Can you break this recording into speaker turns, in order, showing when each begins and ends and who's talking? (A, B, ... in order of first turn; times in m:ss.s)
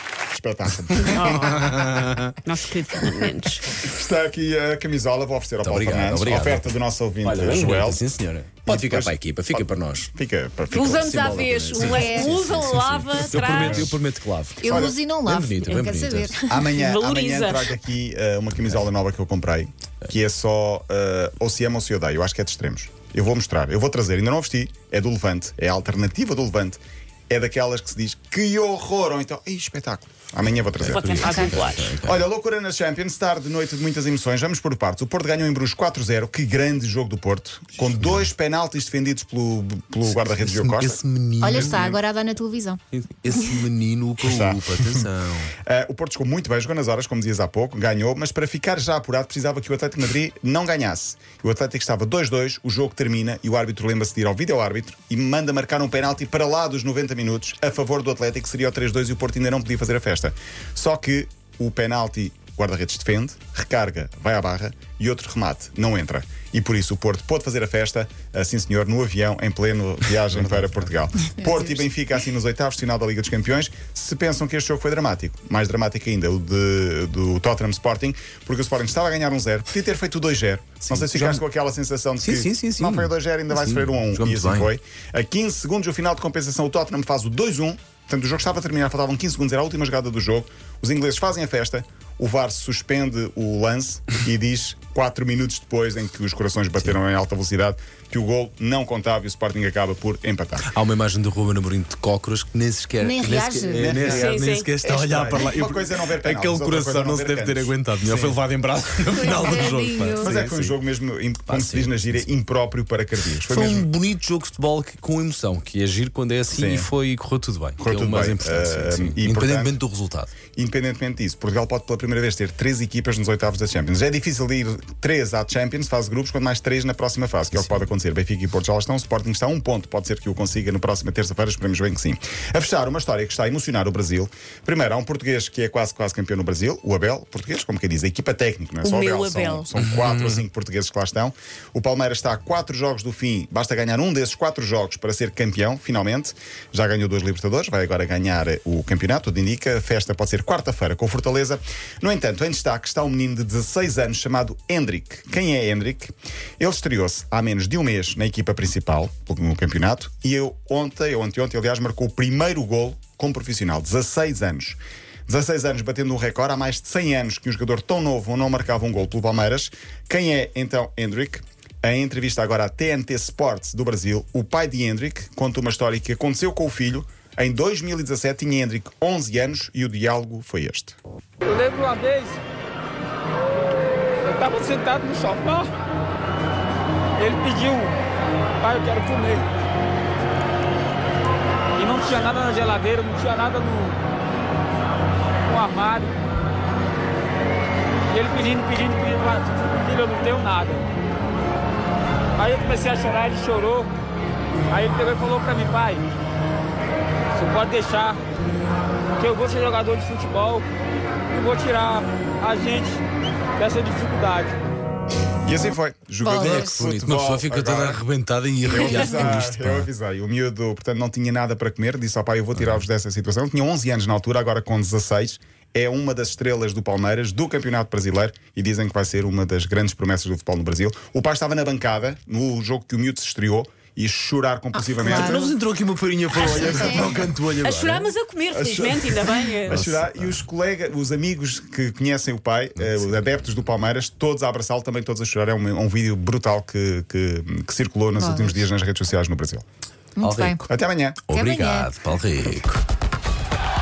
0:00.3-0:01.6 A
0:01.1-0:01.9 B
0:01.2-0:02.3 C
0:02.4-0:03.8 B
0:03.0-0:08.0 A
0:05.6-0:10.1 C
0:08.6-0:12.0 A
0:10.7-0:14.0 B
0:10.7-0:16.4 C
0:11.8-0:12.4 D
0:13.6-0:13.9 A
0:14.6-0:16.6 D
0:14.6-0:15.0 A
0:16.4-0:17.7 B
0:16.5-0:41.0 A
0:30.8-0:32.2 C
0:30.9-0:31.8 B
0:31.2-0:31.5 D
0:40.0-0:41.9 C
0:41.4-0:42.8 D
0:41.5-0:42.0 A
0:42.9-0:45.5 C
0:44.2-0:45.0 A
0:45.6-1:40.7 A
1:10.3-1:11.0 C
1:20.8-1:21.4 C
1:22.2-1:24.7 C
1:40.6-1:50.8 C
1:43.0-1:43.9 D
1:43.7-1:48.4 A
1:44.0-1:44.7 B
1:49.2-1:50.3 D
1:50.2-1:53.9 A
1:51.5-1:52.2 C
1:53.4-2:00.3 C
1:56.5-1:56.9 A
1:57.8-1:59.8 A
2:00.5-3:01.0 A
2:07.5-2:07.8 C
2:18.8-2:19.6 B
2:19.8-2:20.4 C
3:01.4-3:02.4 E
3:04.2-3:05.7 E
3:07.2-3:07.9 E
3:08.6-3:09.5 E
3:11.8-3:14.0 E
3:15.5-3:16.1 E
3:18.1-3:20.9 E
3:22.4-3:23.9 E
3:24.7-3:26.0 E
3:27.3-3:28.2 E
3:29.2-3:30.7 E
3:31.3-3:33.0 E
3:33.6-3:34.6 E
3:35.4-3:38.0 A
3:36.2-3:36.8 D
3:36.3-3:39.9 C
3:38.6-3:55.5 A
3:42.5-3:42.8 C
3:54.9-3:55.5 D
3:55.0-3:58.2 C
3:56.3-3:57.1 D
3:57.6-3:59.8 B
3:58.5-4:09.6 A
3:59.7-4:00.4 C
4:02.8-4:03.2 C
4:08.2-4:08.6 D
4:10.2-4:10.6 D
4:10.2-4:10.6 C
4:10.7-4:11.2 A
4:11.3-4:12.8 C
4:11.3-4:11.9 D